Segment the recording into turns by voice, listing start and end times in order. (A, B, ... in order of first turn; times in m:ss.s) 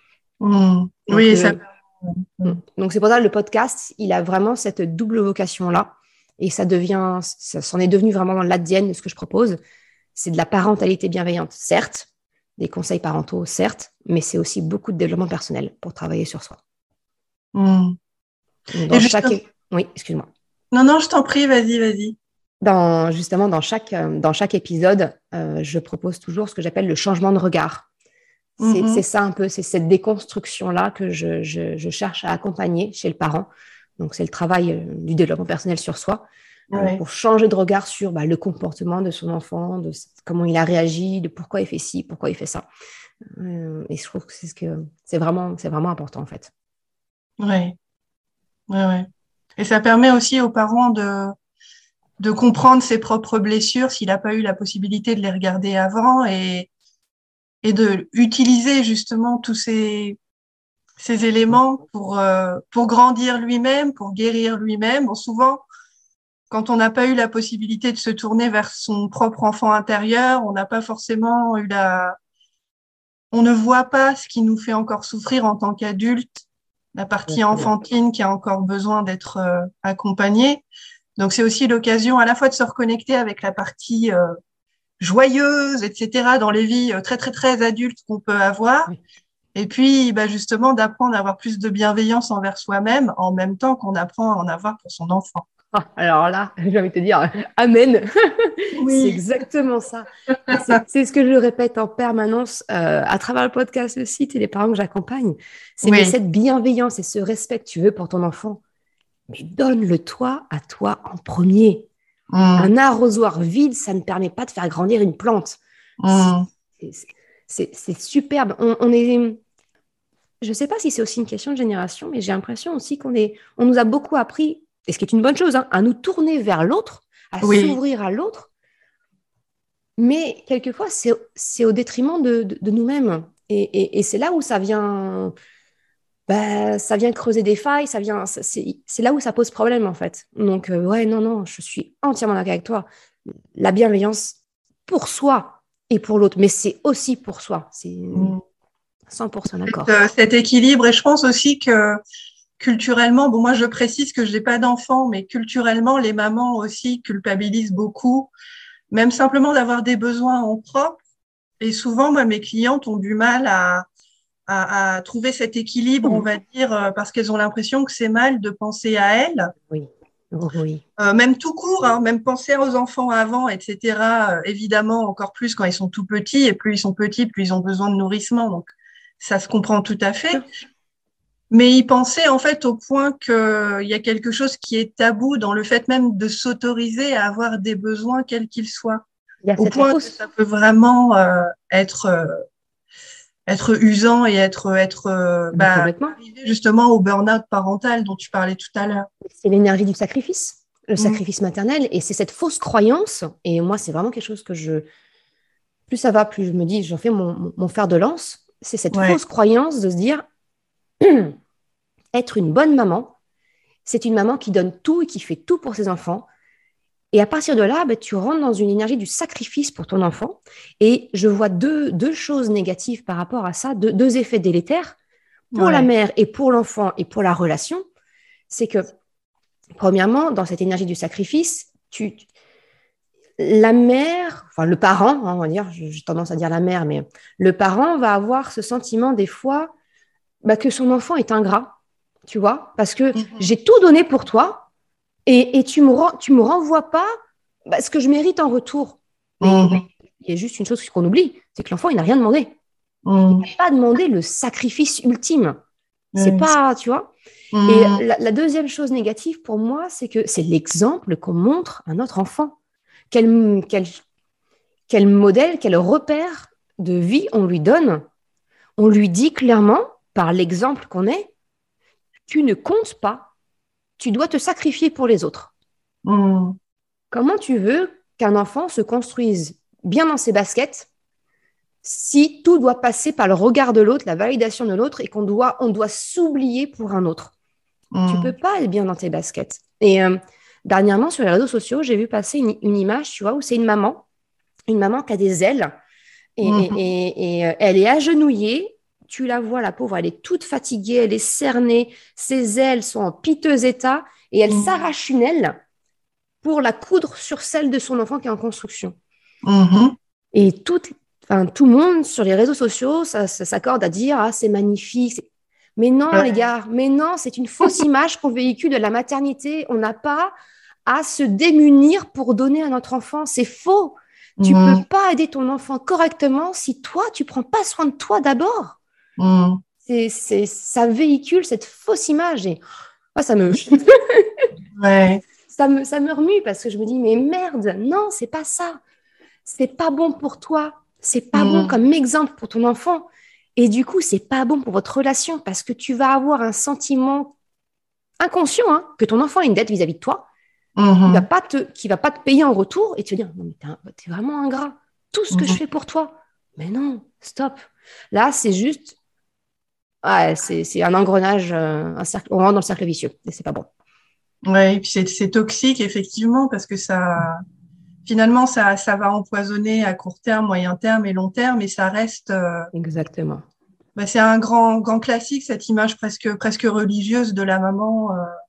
0:00.4-0:02.6 A
0:01.1-0:01.6 B
0:02.4-0:09.6 B
0:10.1-0:16.6 B
0:17.5-0:18.0 A
0:18.7-0:20.3 B
0:18.9-0:19.4 A
0:20.7-0:22.2 A
0:22.6-0:27.9 B
0:28.6-0:42.6 B
0:28.6-0:29.0 A
0:36.7-0:37.0 A
0:43.3-0:46.5 B
0:47.4-0:47.8 A
0:48.7-0:51.3 A
0:52.2-0:56.7 A
0:57.6-1:00.2 A
1:01.0-1:05.6 A
1:06.5-1:12.2 A
1:13.3-1:20.6 A
1:17.3-1:17.7 B
1:21.2-1:24.3 A
1:25.0-1:28.9 A
1:29.5-1:35.4 A
1:35.7-1:48.6 B
1:38.8-1:39.2 A
1:40.3-1:40.8 A
1:45.8-1:46.1 A
1:49.3-1:51.9 B
1:52.3-1:52.7 A
1:52.6-1:56.3 B
1:56.0-1:56.4 A
1:56.8-1:59.4 B
2:00.4-2:08.5 B
2:07.4-2:07.8 A
2:10.0-2:15.3 B
2:16.3-2:22.8 B
2:23.5-2:28.3 B
2:28.1-2:28.4 A
2:29.1-2:29.9 B
2:29.6-2:32.0 A
2:32.6-2:38.3 A
2:38.9-2:41.0 A
2:41.6-2:43.8 A
2:44.5-2:49.5 A
2:49.7-2:50.8 B
2:51.0-3:00.4 A
3:01.5-3:09.0 A
3:09.4-3:10.2 B
3:09.6-3:12.4 A
3:13.5-3:19.1 A
3:15.5-3:16.2 B
3:19.2-3:24.8 B
3:25.9-3:30.2 B
3:28.9-3:29.2 A
3:31.0-3:31.4 B
3:32.1-3:33.1 B
3:33.8-3:36.2 B
3:37.1-3:44.9 B
3:45.5-3:45.9 A
3:45.6-3:47.8 B
3:48.5-3:48.9 B
3:49.8-3:52.2 B
3:53.4-3:59.7 B
4:00.4-4:01.8 B
4:02.3-4:04.7 B
4:05.2-4:07.1 B
4:07.7-4:12.5 B
4:09.4-4:09.8 A
4:13.0-4:13.4 A
4:13.3-4:15.6 B
4:16.1-4:16.5 A
4:16.2-4:17.1 B
4:17.5-4:18.0 A
4:17.7-4:22.6 B
4:23.1-4:24.0 B
4:24.9-4:28.0 B
4:28.8-4:31.3 B
4:32.3-4:33.3 B
4:34.0-4:35.5 B
4:36.0-4:36.6 A
4:37.1-4:40.9 B
4:41.8-4:47.3 B
4:47.9-4:48.3 A
4:48.1-4:54.0 B
4:54.7-4:55.7 B
4:56.4-5:05.6 B
4:56.4-4:56.8 A
5:06.4-5:09.0 B
5:09.4-5:09.9 A
5:10.3-5:20.3 B
5:20.8-5:28.8 B
5:24.4-5:24.8 A
5:29.2-5:29.6 A
5:29.8-5:32.6 B
5:33.1-5:34.5 B
5:34.8-5:35.2 A
5:35.5-5:38.8 B
5:39.4-5:47.3 B
5:41.3-5:41.7 A
5:48.2-5:50.3 B
5:50.8-5:51.2 A
5:51.0-5:59.0 B
5:55.3-5:55.6 A
6:00.0-6:03.7 B
6:04.4-6:07.4 A
6:08.0-6:12.7 A
6:12.7-6:13.4 B
6:14.0-6:18.3 A